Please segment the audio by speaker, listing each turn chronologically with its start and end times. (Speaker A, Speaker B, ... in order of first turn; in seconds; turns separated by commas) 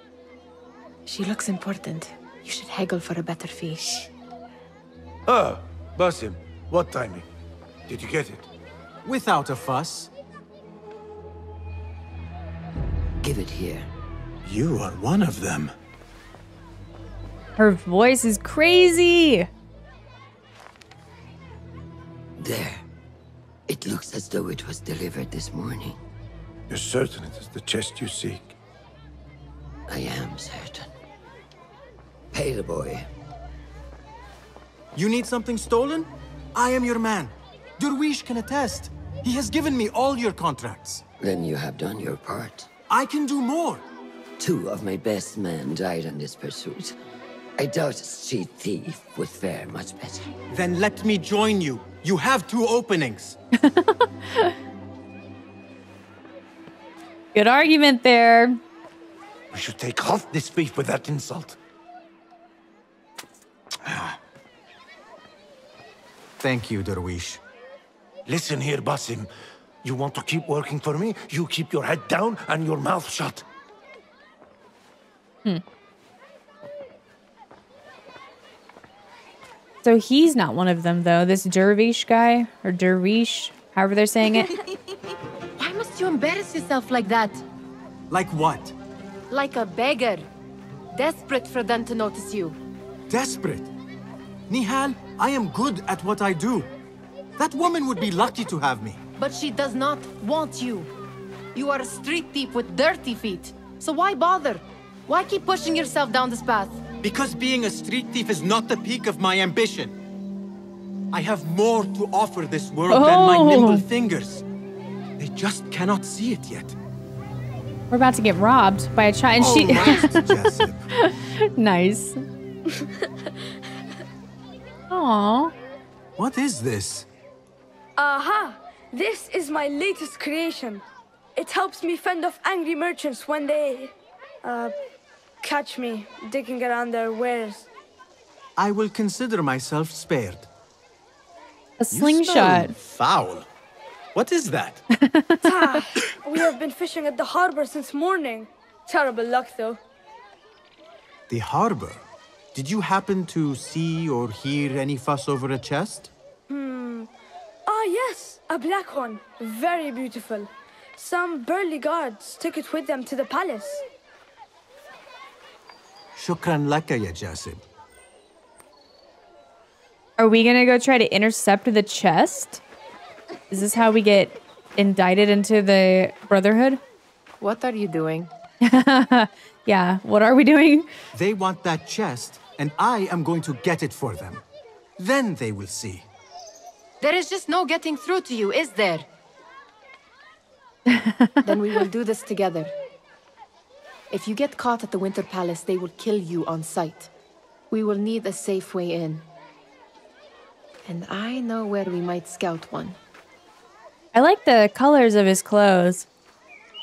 Speaker A: 1.1-4.0, Speaker B: 5.3-7.2, Speaker B: 7.9-8.5, Speaker C: 9.0-10.1, Speaker D: 13.2-13.9, Speaker C: 14.4-15.7, Speaker E: 17.6-19.5, Speaker D: 22.4-22.8, Speaker D: 23.7-26.0, Speaker B: 26.7-28.6, Speaker D: 29.9-30.8, Speaker D: 32.3-33.0, Speaker C: 34.9-41.0, Speaker D: 41.2-42.7, Speaker C: 42.9-43.8, Speaker D: 44.4-47.0, Speaker D: 47.6-50.4, Speaker C: 50.5-53.4, Speaker E: 53.6-54.5, Speaker E: 57.3-58.6, Speaker B: 59.5-61.6, Speaker C: 63.9-64.2, Speaker C: 66.4-67.4, Speaker B: 68.3-69.3, Speaker B: 69.8-73.4, Speaker E: 79.8-84.6, Speaker A: 85.6-87.4, Speaker C: 88.1-88.7, Speaker A: 89.3-90.3, Speaker A: 90.9-92.6, Speaker C: 93.1-93.7, Speaker C: 94.5-96.7, Speaker C: 97.4-99.0, Speaker A: 99.2-100.9, Speaker A: 101.5-106.8, Speaker C: 107.0-109.9, Speaker C: 111.1-114.4, Speaker E: 112.9-113.8, Speaker C: 115.2-116.8, Speaker E: 117.9-120.4, Speaker C: 119.4-120.8, Speaker E: 121.0-122.2, Speaker E: 124.9-125.5, Speaker C: 126.2-127.1, Speaker F: 128.0-130.8, Speaker F: 131.4-133.9, Speaker F: 134.4-134.7, Speaker F: 135.4-137.7, Speaker C: 138.6-140.5, Speaker E: 141.8-142.7, Speaker C: 141.9-143.5, Speaker C: 144.1-144.8, Speaker E: 144.9-145.7, Speaker F: 145.4-149.8, Speaker C: 151.3-156.1, Speaker F: 156.5-157.1, Speaker F: 157.7-163.8, Speaker C: 166.1-167.6, Speaker E: 170.2-172.6, Speaker E: 173.5-176.8, Speaker A: 177.4-178.3, Speaker E: 178.6-180.9, Speaker C: 181.1-184.4, Speaker C: 185.0-186.1, Speaker A: 187.0-189.1, Speaker E: 190.9-191.4, Speaker A: 191.4-192.7, Speaker A: 194.1-197.1, Speaker A: 197.7-199.2, Speaker A: 200.8-203.0, Speaker E: 204.1-206.1